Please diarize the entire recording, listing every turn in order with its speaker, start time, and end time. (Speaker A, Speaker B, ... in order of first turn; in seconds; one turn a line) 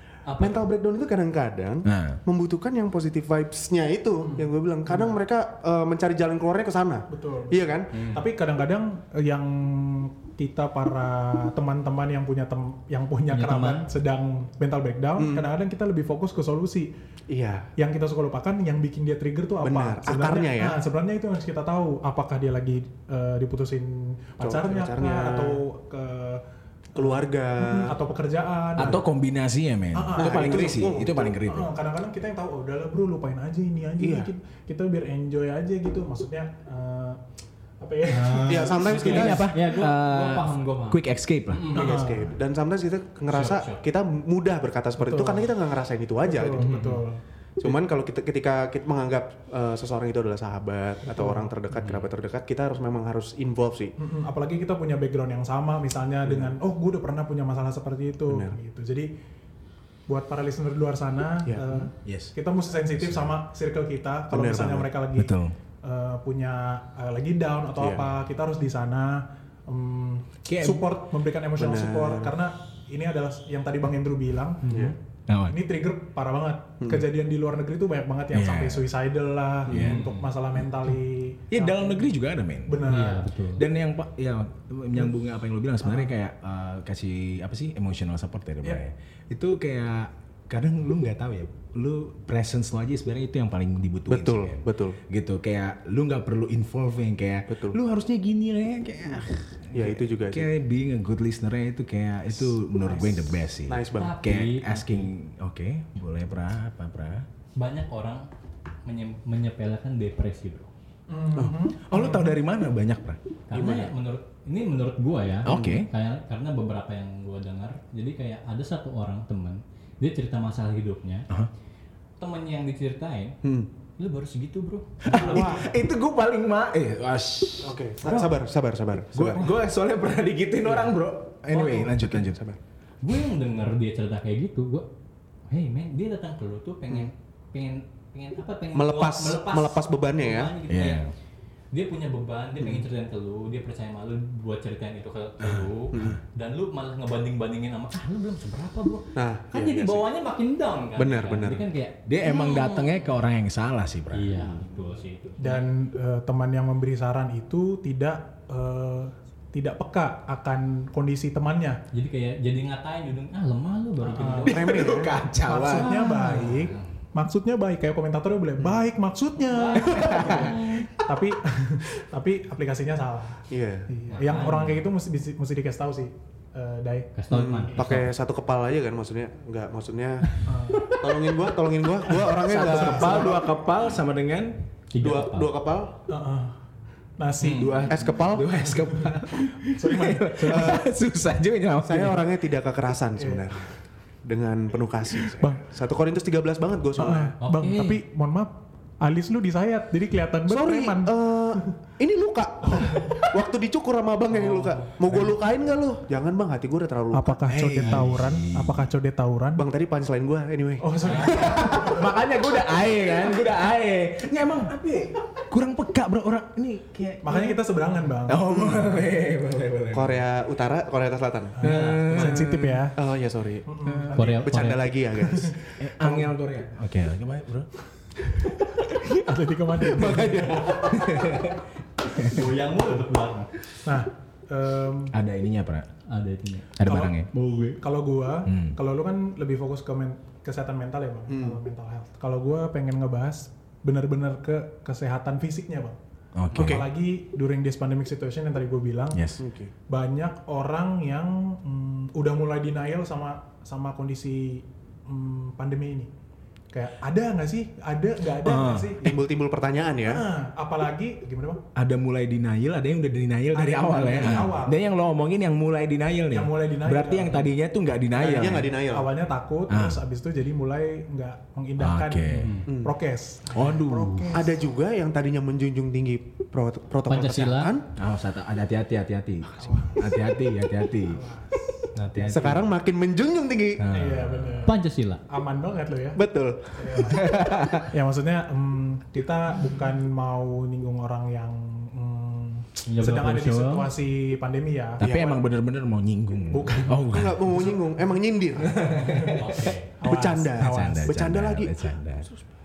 Speaker A: 0.3-0.6
Speaker B: 0.4-7.9
Speaker C: 1.9-2.2
Speaker D: 4.3-5.2
Speaker D: 7.1-16.9
Speaker A: 7.9-8.2
Speaker A: 13.3-13.9
Speaker B: 15.2-15.5
Speaker B: 17.3-17.7
Speaker D: 17.8-26.4
Speaker B: 19.6-20.8
Speaker B: 24.4-25.6
Speaker B: 26.9-28.0
Speaker D: 26.9-29.0
Speaker C: 28.8-31.7
Speaker D: 29.9-30.8
Speaker B: 30.2-31.4
Speaker D: 31.4-37.2
Speaker B: 34.0-34.3
Speaker D: 37.8-39.1
Speaker A: 38.1-42.1
Speaker B: 38.5-39.4
Speaker C: 38.9-41.7
Speaker B: 41.7-46.7
Speaker D: 41.7-42.3
Speaker A: 43.3-43.8
Speaker D: 45.0-45.5
Speaker D: 46.2-47.8
Speaker A: 46.6-47.0
Speaker B: 47.6-54.0
Speaker D: 51.1-51.5
Speaker A: 51.7-52.1
Speaker D: 54.0-59.1
Speaker B: 56.2-56.5
Speaker B: 58.3-58.5
Speaker D: 60.1-74.8
Speaker B: 61.5-61.9
Speaker C: 62.0-62.3
Speaker C: 63.0-63.3
Speaker B: 64.3-64.9
Speaker C: 65.2-65.5
Speaker B: 67.8-68.1
Speaker C: 70.5-70.9
Speaker B: 71.6-72.3
Speaker B: 74.7-75.0
Speaker C: 75.3-75.6
Speaker D: 75.5-82.1
Speaker B: 76.8-77.1
Speaker C: 78.3-78.9
Speaker A: 79.7-80.3
Speaker C: 79.7-80.1
Speaker C: 81.5-82.9
Speaker D: 82.7-83.2
Speaker A: 82.9-83.6
Speaker C: 83.6-107.3
Speaker D: 85.8-86.1
Speaker B: 94.1-95.0
Speaker B: 97.5-97.8
Speaker B: 99.7-100.5
Speaker D: 102.8-103.1
Speaker B: 103.7-104.1
Speaker A: 103.9-105.1
Speaker A: 107.6-108.3
Speaker A: 108.9-110.7
Speaker D: 111.1-112.4
Speaker C: 111.8-113.2
Speaker A: 113.5-121.3
Speaker B: 113.5-113.9
Speaker C: 115.5-115.9
Speaker B: 115.5-115.8
Speaker A: 122.2-123.4
Speaker B: 123.4-123.7
Speaker A: 124.0-125.5
Speaker C: 125.0-128.4
Speaker B: 125.1-125.7
Speaker B: 127.6-129.5
Speaker C: 129.1-132.5
Speaker B: 131.5-132.6
Speaker A: 133.0-134.9
Speaker A: 135.5-141.1
Speaker B: 138.7-140.5
Speaker C: 140.7-141.1
Speaker A: 141.7-153.0
Speaker B: 142.6-142.8
Speaker C: 145.4-146.2
Speaker B: 145.9-146.2
Speaker B: 149.2-150.1
Speaker B: 150.9-151.7
Speaker C: 152.1-154.7
Speaker A: 154.1-155.7
Speaker D: 155.4-161.8
Speaker A: 161.9-165.0
Speaker D: 164.0-164.6
Speaker C: 164.5-166.3
Speaker B: 164.5-165.2
Speaker D: 165.4-177.1
Speaker A: 165.8-166.8
Speaker A: 169.4-170.9
Speaker C: 169.8-170.9
Speaker B: 173.5-173.9
Speaker A: 174.1-174.9
Speaker A: 177.2-178.1
Speaker B: 177.3-183.5
Speaker D: 180.4-181.0
Speaker C: 182.1-184.6
Speaker D: 182.5-183.4
Speaker A: 184.9-185.5
Speaker B: 185.0-185.9
Speaker D: 186.1-186.6
Speaker D: 187.2-187.9
Speaker A: 187.4-187.9
Speaker C: 187.6-192.3
Speaker B: 187.9-188.6
Speaker D: 188.8-190.8
Speaker B: 190.5-190.8
Speaker B: 191.8-193.7
Speaker D: 193.2-193.5
Speaker B: 194.2-197.3
Speaker D: 195.4-195.6
Speaker D: 197.0-201.7
Speaker A: 197.4-198.0
Speaker B: 200.5-208.0
Speaker D: 202.6-203.3
Speaker A: 204.3-205.2
Speaker D: 207.1-209.6
Speaker C: 207.5-208.9
Speaker B: 209.6-212.0
Speaker D: 210.8-212.1
Speaker A: 211.1-211.5
Speaker C: 211.2-217.7
Speaker D: 217.2-218.4
Speaker C: 218.2-220.2
Speaker B: 218.4-219.0
Speaker B: 219.9-221.6
Speaker D: 221.6-223.0
Speaker C: 221.6-222.9
Speaker A: 221.6-222.1
Speaker B: 222.9-225.7
Speaker D: 223.7-224.4
Speaker C: 223.8-224.2
Speaker A: 224.2-225.0
Speaker D: 225.2-226.3
Speaker C: 225.8-227.7
Speaker D: 228.8-230.8
Speaker B: 229.8-231.5
Speaker C: 230.9-231.6
Speaker A: 232.1-233.5
Speaker C: 232.1-232.5
Speaker D: 233.8-235.2
Speaker C: 235.1-235.9
Speaker A: 236.1-236.7
Speaker C: 236.8-237.8
Speaker D: 236.8-237.2
Speaker D: 237.8-246.0
Speaker C: 238.4-238.8
Speaker B: 241.3-241.6
Speaker C: 246.4-246.9
Speaker B: 246.5-246.9
Speaker D: 246.6-249.2
Speaker C: 249.1-249.4
Speaker B: 249.4-249.7
Speaker D: 249.9-256.1
Speaker D: 256.7-259.2
Speaker C: 258.4-259.0
Speaker B: 259.0-260.2
Speaker D: 260.1-261.6
Speaker C: 261.8-268.8
Speaker D: 263.5-264.8
Speaker D: 266.3-267.5
Speaker D: 268.2-274.6
Speaker B: 268.2-269.1
Speaker C: 269.7-270.0
Speaker C: 271.8-272.6
Speaker A: 272.3-272.7
Speaker B: 272.7-272.9
Speaker C: 273.5-274.4
Speaker B: 274.3-277.8
Speaker A: 277.1-277.8
Speaker C: 278.0-281.2
Speaker D: 279.6-280.2
Speaker D: 281.0-281.9
Speaker C: 281.9-282.7
Speaker B: 282.3-283.9
Speaker C: 283.8-284.7
Speaker D: 283.9-284.8
Speaker A: 284.6-285.2
Speaker D: 285.3-286.2
Speaker B: 286.1-287.2
Speaker D: 286.8-295.3
Speaker C: 287.0-287.9
Speaker A: 292.9-293.9
Speaker C: 295.0-297.7
Speaker B: 295.0-295.4
Speaker D: 296.5-297.1
Speaker B: 297.1-299.3
Speaker C: 298.7-299.8
Speaker D: 299.0-299.4
Speaker A: 299.3-299.9
Speaker D: 300.0-301.1
Speaker B: 300.0-301.8
Speaker C: 300.6-302.3